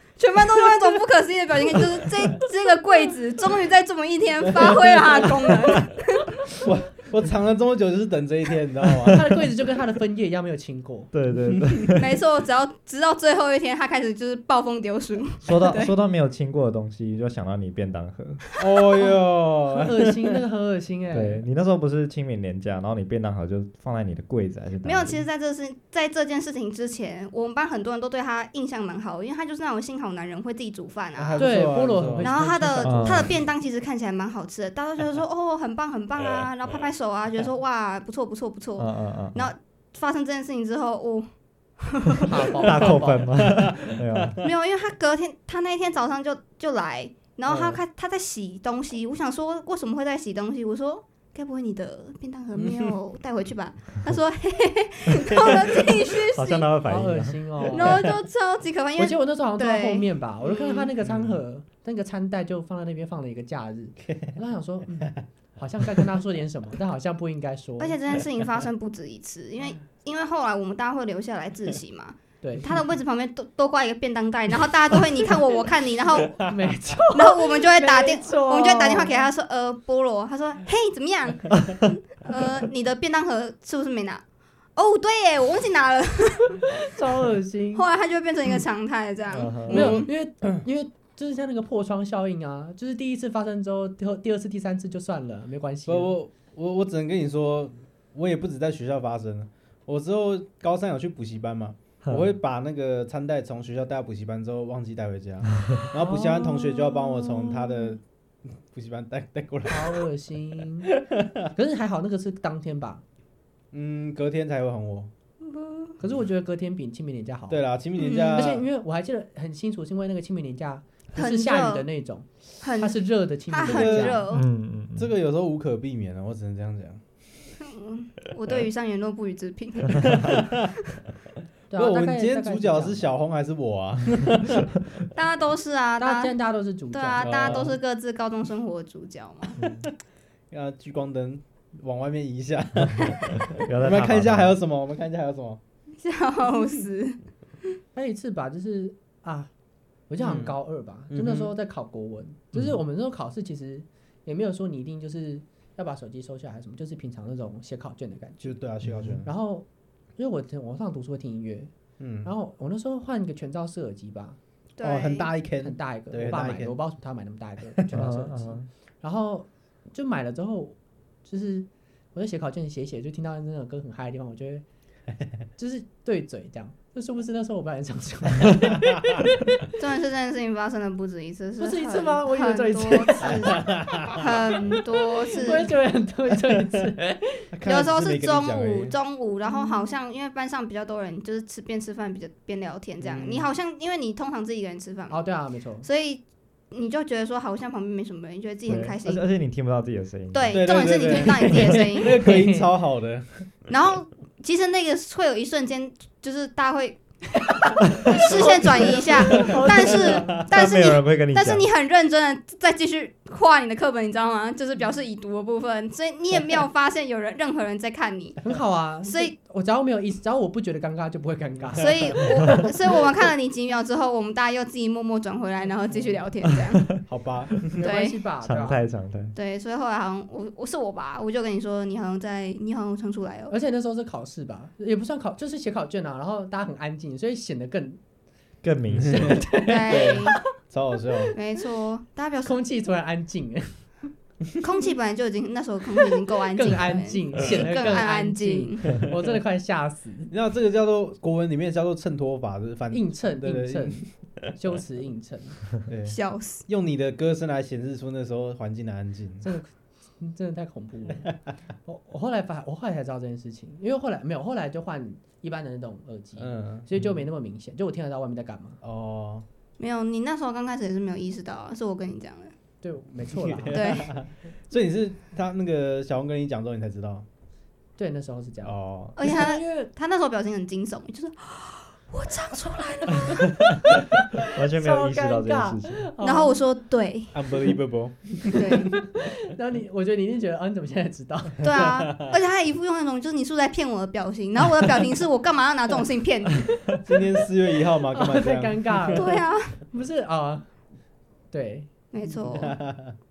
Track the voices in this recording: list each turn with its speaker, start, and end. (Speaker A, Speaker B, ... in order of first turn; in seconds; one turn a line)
Speaker A: 0.2-6.4
Speaker B: 4.7-5.4
Speaker B: 6.5-9.3
Speaker C: 9.0-11.1
Speaker D: 11.1-12.2
Speaker B: 11.5-11.8
Speaker A: 11.9-15.9
Speaker D: 15.4-18.4
Speaker B: 18.6-20.4
Speaker C: 19.7-21.4
Speaker D: 21.1-25.2
Speaker A: 24.8-31.6
Speaker B: 31.2-32.4
Speaker C: 31.4-33.4
Speaker A: 32.2-41.3
Speaker D: 32.8-33.3
Speaker D: 38.8-39.5
Speaker A: 41.8-42.6
Speaker C: 42.2-43.4
Speaker D: 42.6-44.4
Speaker A: 44.4-56.7
Speaker B: 52.5-53.0
Speaker D: 56.3-58.1
Speaker C: 56.8-58.1
Speaker A: 57.7-60.9
Speaker C: 59.0-68.0
Speaker B: 61.0-61.4
Speaker B: 64.1-64.3
Speaker A: 67.8-76.5
Speaker C: 72.4-72.7
Speaker C: 76.4-79.3
Speaker A: 77.1-84.2
Speaker A: 84.8-86.6
Speaker C: 86.7-87.8
Speaker A: 87.7-90.1
Speaker D: 89.3-90.0
Speaker B: 89.4-90.6
Speaker C: 89.7-96.1
Speaker B: 95.8-110.1
Speaker D: 102.0-102.3
Speaker C: 106.0-106.9
Speaker A: 107.6-108.0
Speaker C: 109.7-110.9
Speaker B: 110.8-111.5
Speaker C: 111.5-113.0
Speaker B: 113.7-115.1
Speaker A: 115.5-115.9
Speaker C: 116.0-117.6
Speaker B: 117.5-118.7
Speaker A: 118.0-118.5
Speaker C: 118.3-124.3
Speaker A: 121.1-121.8
Speaker A: 122.6-124.4
Speaker B: 123.6-124.2
Speaker D: 124.3-125.1
Speaker B: 125.0-127.0
Speaker A: 127.6-130.5
Speaker B: 130.1-130.7
Speaker C: 131.7-133.1
Speaker B: 131.7-134.7
Speaker A: 135.1-136.3
Speaker C: 136.0-137.8
Speaker A: 136.9-139.6
Speaker B: 137.2-137.8
Speaker D: 139.6-139.9
Speaker B: 140.5-145.6
Speaker D: 143.3-144.6
Speaker A: 146.0-147.2
Speaker C: 147.9-149.5
Speaker C: 150.1-158.6
Speaker B: 150.2-150.6
Speaker B: 151.1-151.5
Speaker B: 158.4-159.3
Speaker D: 158.9-159.1
Speaker C: 159.2-159.7
Speaker C: 160.2-161.7
Speaker B: 162.0-162.3
Speaker C: 162.2-164.4
Speaker A: 164.8-165.3
Speaker B: 164.8-166.8
Speaker C: 165.6-174.6
Speaker D: 167.9-168.7
Speaker C: 175.6-179.3
Speaker A: 179.8-185.7
Speaker C: 181.6-184.6
Speaker B: 183.2-184.2
Speaker C: 185.3-187.4
Speaker B: 186.4-186.9
Speaker B: 187.5-188.9
Speaker A: 187.7-195.2
Speaker C: 189.5-189.9
Speaker B: 193.0-193.5
Speaker C: 195.1-195.9
Speaker A: 195.8-199.2
Speaker D: 198.7-200.9
Speaker A: 200.3-202.2
Speaker B: 200.5-203.5
Speaker C: 201.6-202.7
Speaker A: 203.7-207.6
Speaker C: 208.1-210.5
Speaker A: 208.1-218.4
Speaker B: 208.3-210.1
Speaker D: 210.4-211.7
Speaker C: 218.4-222.7
Speaker A: 219.0-219.3
Speaker B: 221.6-222.0
Speaker A: 221.8-226.8
Speaker C: 225.9-226.2
Speaker B: 227.0-227.9
Speaker C: 227.8-228.8
Speaker A: 227.8-228.2
Speaker D: 228.4-229.3
Speaker A: 229.3-233.5
Speaker C: 233.5-238.0
Speaker D: 238.6-239.6
Speaker B: 238.9-241.3
Speaker A: 239.5-240.4
Speaker C: 239.5-240.4
Speaker A: 241.3-242.5
Speaker C: 242.4-243.9
Speaker A: 244.6-248.9
Speaker C: 246.0-250.3
Speaker B: 250.3-254.2
Speaker C: 252.9-255.7
Speaker B: 255.8-259.5
Speaker A: 256.1-256.6
Speaker C: 259.4-261.3
Speaker C: 261.8-268.8
Speaker B: 266.4-266.9
Speaker B: 268.8-269.4
Speaker A: 269.8-272.5
Speaker C: 272.8-273.9
Speaker B: 273.3-277.3
Speaker A: 273.7-274.1
Speaker C: 278.0-279.9
Speaker B: 278.6-279.1
Speaker A: 279.1-283.4
Speaker D: 283.3-283.7
Speaker D: 284.4-286.1
Speaker C: 284.6-286.6
Speaker A: 286.2-287.4
Speaker B: 287.3-288.7
Speaker A: 288.5-289.0
Speaker C: 288.9-291.9
Speaker A: 291.6-296.8
Speaker B: 291.8-292.3
Speaker B: 297.0-299.3
Speaker C: 298.1-300.7
Speaker A: 299.1-299.8
Speaker C: 301.5-302.4
Speaker A: 302.1-302.8
Speaker B: 302.6-303.1